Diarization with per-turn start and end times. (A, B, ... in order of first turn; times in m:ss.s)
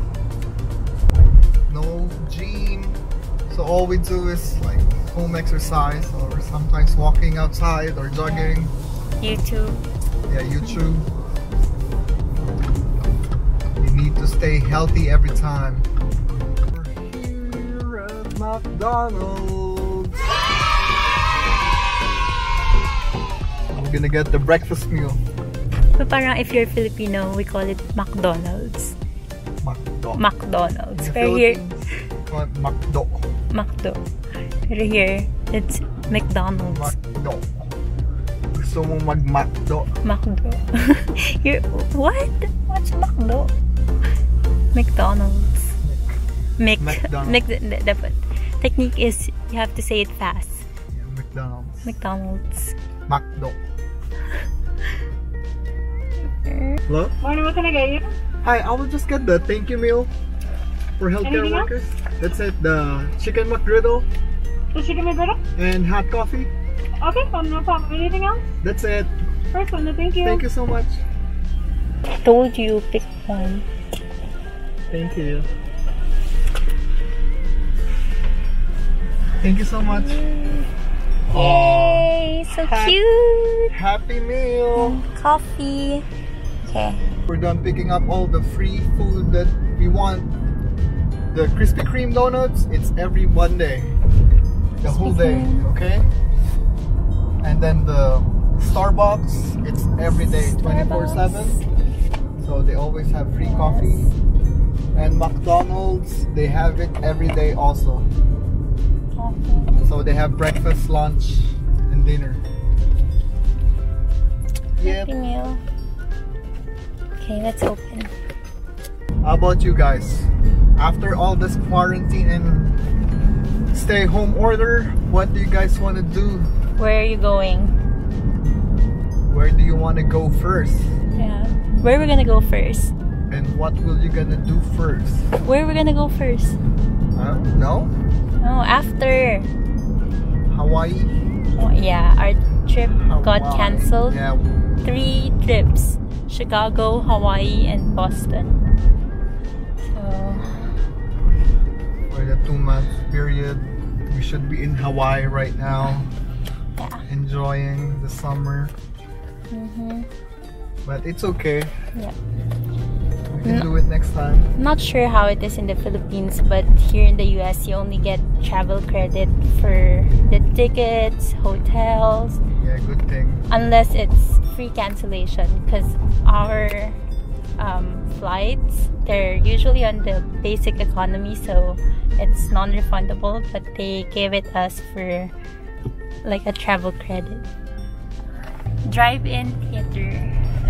0:01.7-0:08.7 A
0:08.2-0:08.5 B
0:09.2-0:09.8 B
0:10.3-0:11.1 A
0:13.8-0:15.9 A
0:16.6-0:20.4 A
0:23.7-0:25.2 A
0:25.9-0:28.9 B
0:29.6-0:30.2 A
0:30.1-0:31.6 B
0:30.9-0:33.3 A
0:33.5-0:34.0 B
0:34.7-0:37.0 B
0:36.7-0:37.5 A
0:38.5-0:40.0 A
0:40.0-0:43.5 B
0:44.7-0:45.7 B
0:45.8-0:46.2 A
0:46.6-0:50.6 B
0:46.8-0:47.4 A
0:50.9-0:51.9 A
0:51.8-0:52.7 B
0:53.1-0:53.6 A
0:56.3-0:56.8 B
0:56.9-0:57.2 A
0:57.2-0:58.1 C
0:58.4-1:00.1 A
1:01.0-1:04.1 A
1:01.2-1:01.7 C
1:04.7-1:05.4 C
1:05.6-1:06.5 A
1:07.0-1:08.5 C
1:08.6-1:09.1 A
1:09.5-1:10.4 C
1:10.2-1:11.0 A
1:12.2-1:13.6 B
1:14.9-1:15.5 A
1:19.4-1:20.2 A
1:19.8-1:20.7 B
1:21.3-1:23.0 A
1:21.3-1:23.7 B
1:23.7-1:25.0 A
1:24.7-1:26.0 B
1:26.6-1:27.0 B
1:27.3-1:30.3 A
1:31.3-1:34.0 A
1:34.8-1:36.1 A
1:34.8-1:35.7 B
1:37.4-1:41.6 A
1:40.2-1:41.6 B
1:42.4-1:44.1 A
1:43.4-1:44.1 B
1:44.9-1:48.1 A
1:49.1-1:49.7 B
1:49.8-1:52.4 A
1:54.8-1:55.1 A
1:54.8-1:55.6 B
1:57.2-1:58.1 B
1:59.2-2:02.8 A
2:03.7-2:06.5 A
2:06.8-2:07.7 B
2:09.3-2:11.0 A
2:11.2-2:12.9 B
2:13.3-2:15.3 A
2:15.3-2:16.6 B
2:17.1-2:17.9 A
2:18.4-2:19.5 B
2:20.5-2:21.2 A
2:21.5-2:24.2 B
2:22.9-2:24.5 A
2:24.8-2:28.6 B
2:29.8-2:30.7 B
2:32.1-2:36.1 A
2:36.8-2:37.0 B
2:37.1-2:38.7 A
2:39.5-2:40.1 B
2:40.8-2:41.7 A
2:43.3-2:44.5 A
2:43.4-2:43.7 B
2:44.5-2:52.4 B
2:52.6-2:53.5 A
2:53.5-2:57.0 B
2:57.6-3:05.3 B
3:06.2-3:07.4 B
3:08.8-3:10.3 B